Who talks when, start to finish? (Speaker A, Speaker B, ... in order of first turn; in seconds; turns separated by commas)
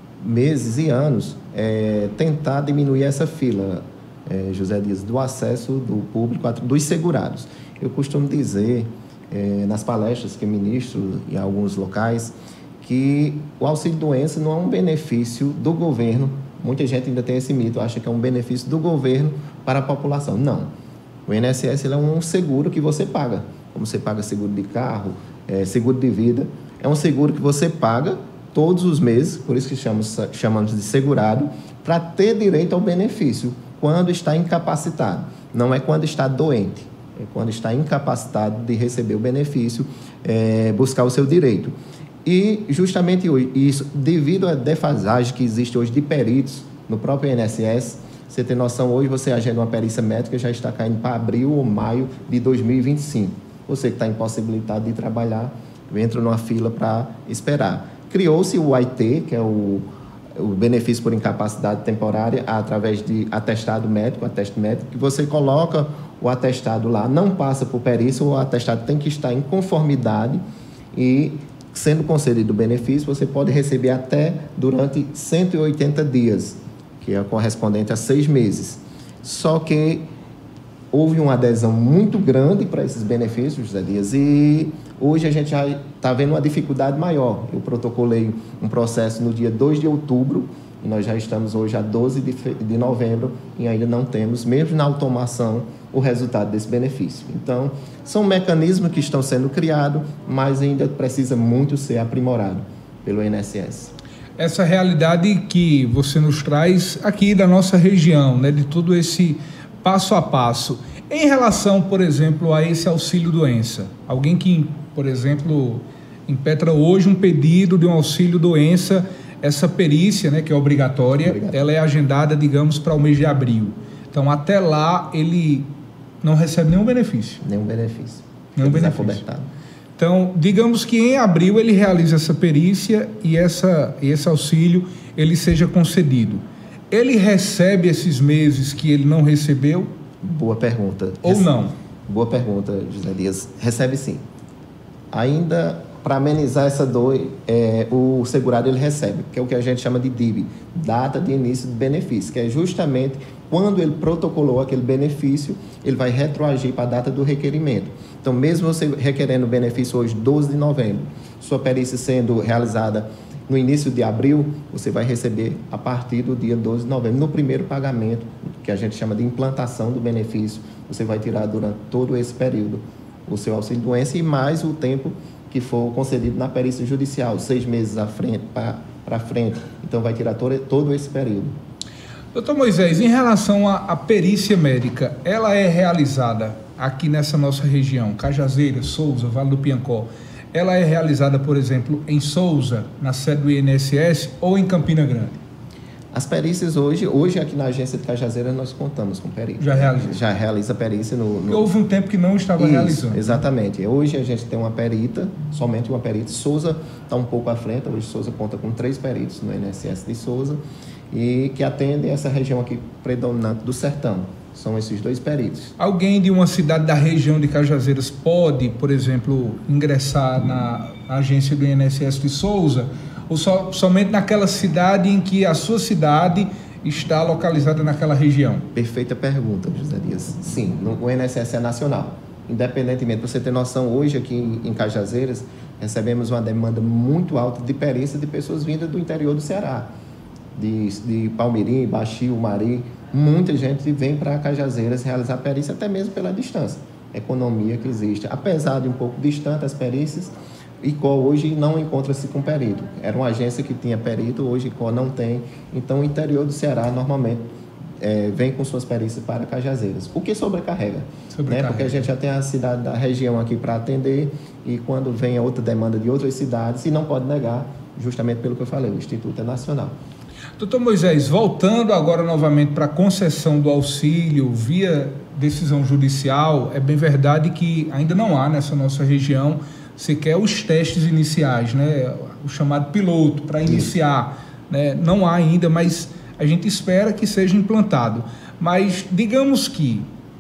Speaker A: 0.2-20.7, Speaker A: 21.2-70.4, Speaker A: 70.9-80.1, Speaker A: 80.9-103.9, Speaker B: 104.4-125.7, Speaker A: 121.2-121.6, Speaker B: 126.2-127.4, Speaker A: 127.4-129.5, Speaker B: 128.6-129.2, Speaker B: 130.0-139.9, Speaker A: 140.2-141.5, Speaker B: 141.2-141.7, Speaker A: 142.1-144.2, Speaker A: 145.1-181.5, Speaker B: 182.3-195.4, Speaker A: 196.1-201.7, Speaker B: 199.6-200.2, Speaker B: 201.5-203.4, Speaker A: 202.6-210.6, Speaker A: 211.1-215.7, Speaker B: 215.8-228.7, Speaker A: 228.7-239.9, Speaker A: 240.5-257.4, Speaker A: 258.0-269.9, Speaker B: 261.3-262.0, Speaker B: 270.6-290.1, Speaker A: 283.6-283.9